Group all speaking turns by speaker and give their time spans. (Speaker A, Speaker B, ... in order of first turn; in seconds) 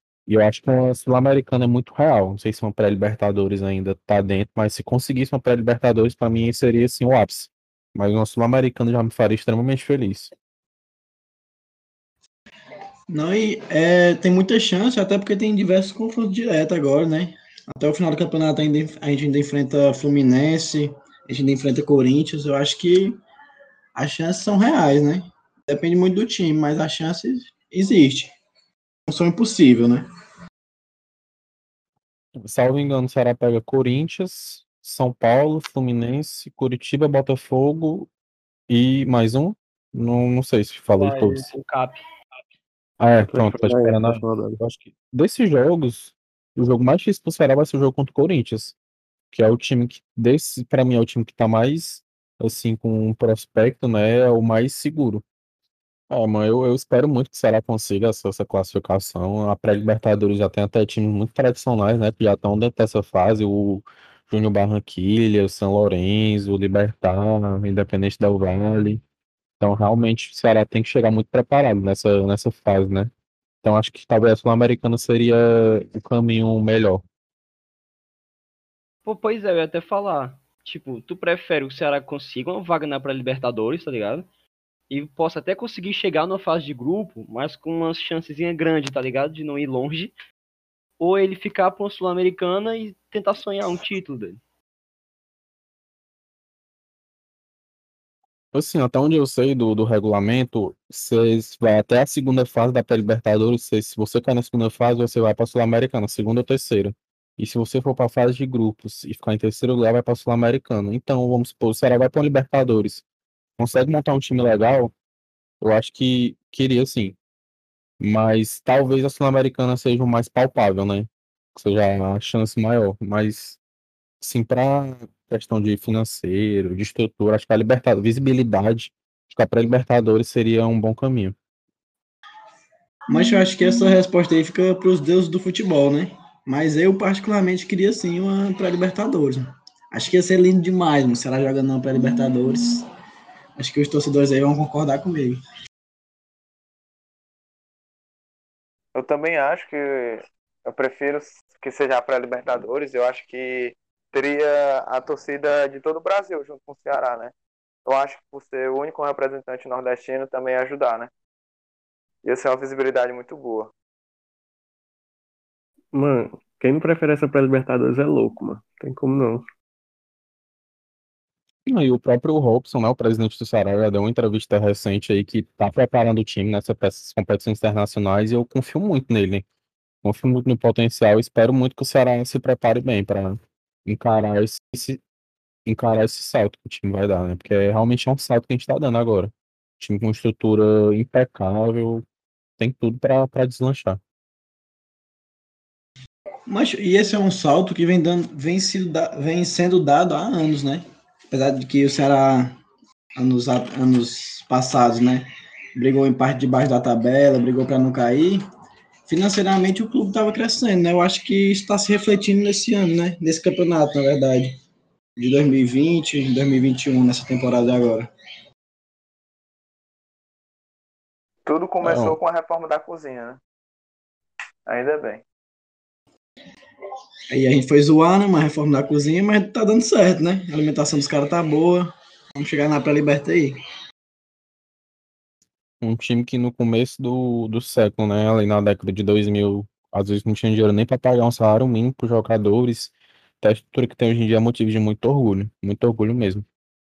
Speaker A: 0.3-10.3, 32.4-38.1, 38.7-41.5, 43.0-48.8, 49.3-55.2, 56.1-69.0, 69.6-73.1, 73.6-77.0, 98.5-113.0, 113.6-114.9, 115.6-117.2, 118.0-123.6, 124.2-131.3, 171.7-179.4, 180.0-185.0, 185.7-192.1, 192.6-194.0, 221.8-222.2, 235.8-246.4
Speaker B: 13.1-23.2, 23.9-28.3, 29.1-30.1, 133.1-142.9, 143.6-145.4, 196.5-202.6, 203.2-208.4, 209.1-214.6, 215.2-218.1, 227.3-233.6
Speaker C: 41.0-42.0, 79.1-84.2, 84.9-90.1, 91.0-94.4
Speaker D: 43.2-44.6, 165.9-169.4
Speaker E: 148.9-157.3, 157.8-161.1, 162.2-163.7, 221.5-223.4, 224.7-225.2